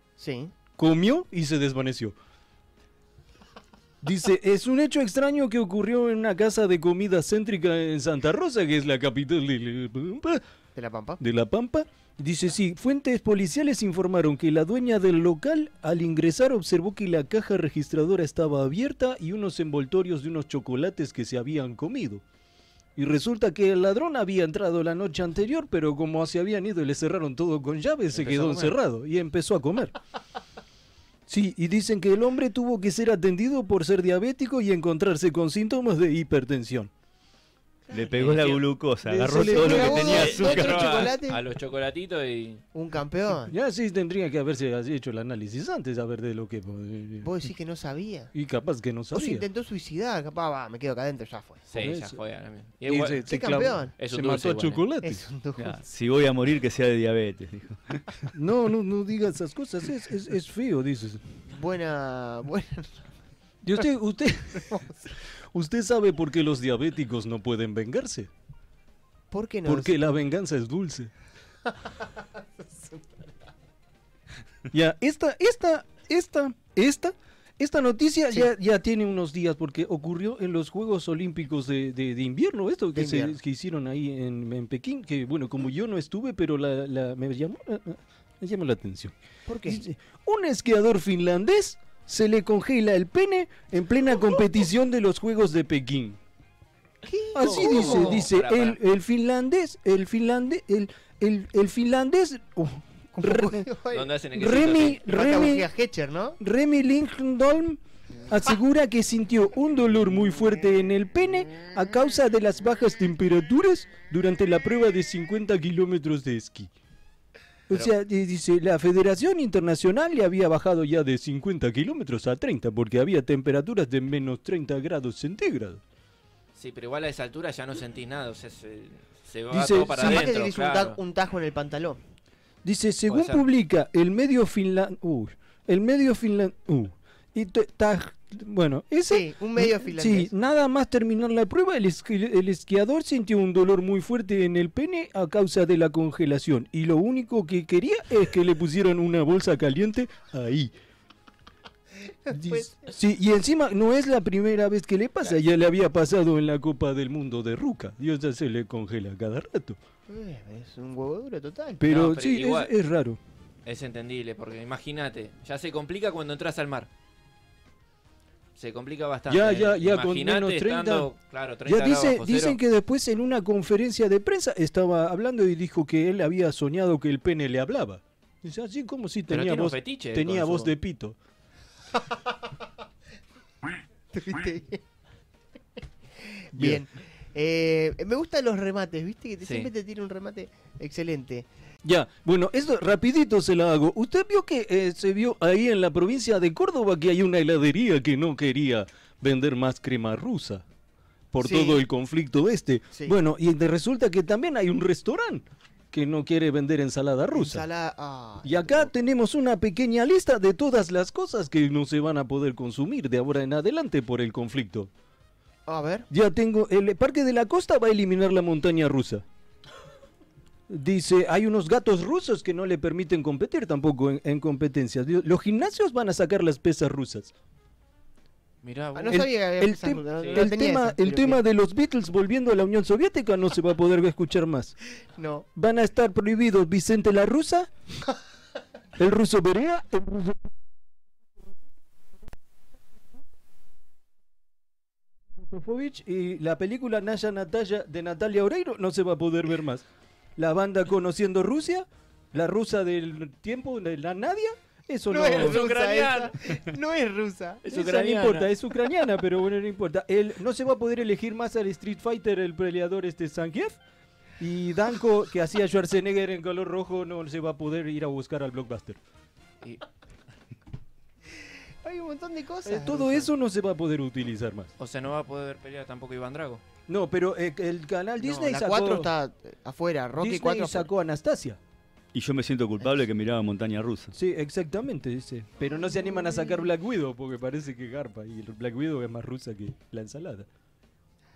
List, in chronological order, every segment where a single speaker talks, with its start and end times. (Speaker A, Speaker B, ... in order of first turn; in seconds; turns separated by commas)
Speaker A: 0.2-0.5, Speaker B: 0.8-2.1, Speaker B: 4.0-10.4, Speaker A: 10.7-11.2, Speaker B: 11.2-22.2, Speaker B: 23.0-29.9, Speaker C: 28.1-28.8, Speaker B: 31.3-36.9, Speaker D: 37.9-41.1, Speaker C: 37.9-38.6, Speaker B: 39.1-40.3, Speaker A: 39.1-41.4, Speaker C: 39.5-42.6, Speaker A: 42.7-43.5, Speaker B: 43.5-47.3, Speaker A: 47.2-48.3, Speaker B: 48.3-49.5, Speaker A: 49.1-51.6, Speaker C: 51.7-53.3, Speaker B: 51.8-52.2, Speaker B: 52.9-55.3, Speaker A: 53.2-53.9, Speaker C: 54.0-54.8, Speaker A: 55.0-55.8, Speaker D: 55.6-58.2, Speaker B: 58.3-61.2, Speaker A: 61.5-63.0, Speaker B: 63.6-68.3, Speaker A: 69.3-70.0, Speaker B: 69.7-71.1, Speaker B: 74.7-89.1, Speaker A: 82.9-83.4, Speaker A: 89.5-89.8, Speaker B: 89.7-96.2, Speaker A: 97.0-98.2, Speaker B: 97.3-103.7, Speaker C: 97.4-98.8, Speaker A: 103.1-104.1, Speaker C: 103.9-105.0, Speaker B: 104.4-105.7, Speaker A: 104.8-106.4, Speaker B: 106.4-116.7, Speaker B: 117.7-125.8, Speaker C: 126.5-131.0, Speaker B: 129.5-130.3, Speaker A: 130.0-132.0, Speaker B: 132.6-150.7, Speaker C: 133.1-133.5, Speaker A: 139.1-140.3, Speaker A: 152.1-152.8, Speaker B: 152.3-159.8, Speaker A: 160.1-161.8, Speaker B: 161.8-163.2, Speaker C: 161.9-162.7, Speaker C: 163.6-166.9, Speaker C: 168.6-172.6, Speaker B: 169.3-171.1, Speaker B: 171.6-181.2, Speaker C: 179.3-180.7, Speaker A: 184.1-184.8, Speaker A: 186.2-191.4, Speaker B: 186.5-186.8, Speaker C: 189.4-189.7, Speaker B: 191.8-200.6, Speaker B: 201.3-207.7, Speaker A: 201.4-201.8, Speaker A: 207.3-208.9, Speaker B: 208.4-214.9, Speaker A: 215.7-216.1, Speaker B: 216.1-219.2, Speaker B: 220.7-227.3, Speaker C: 228.6-229.2, Speaker A: 228.9-231.4, Speaker B: 229.1-234.8, Speaker C: 230.2-230.5, Speaker A: 235.1-235.4, Speaker B: 235.6-237.7, Speaker B: 239.0-240.4, Speaker B: 245.4-249.8, Speaker B: 250.4-255.6, Speaker A: 255.1-257.6, Speaker C: 255.3-256.6, Speaker C: 257.6-258.6, Speaker B: 257.7-263.8, Speaker B: 264.4-269.0, Speaker A: 271.8-273.3, Speaker B: 272.6-274.7, Speaker C: 274.8-276.6, Speaker B: 276.9-279.1, Speaker A: 278.2-280.9, Speaker B: 280.1-281.6, Speaker D: 282.1-284.1, Speaker B: 284.1-290.5, Speaker A: 286.1-286.6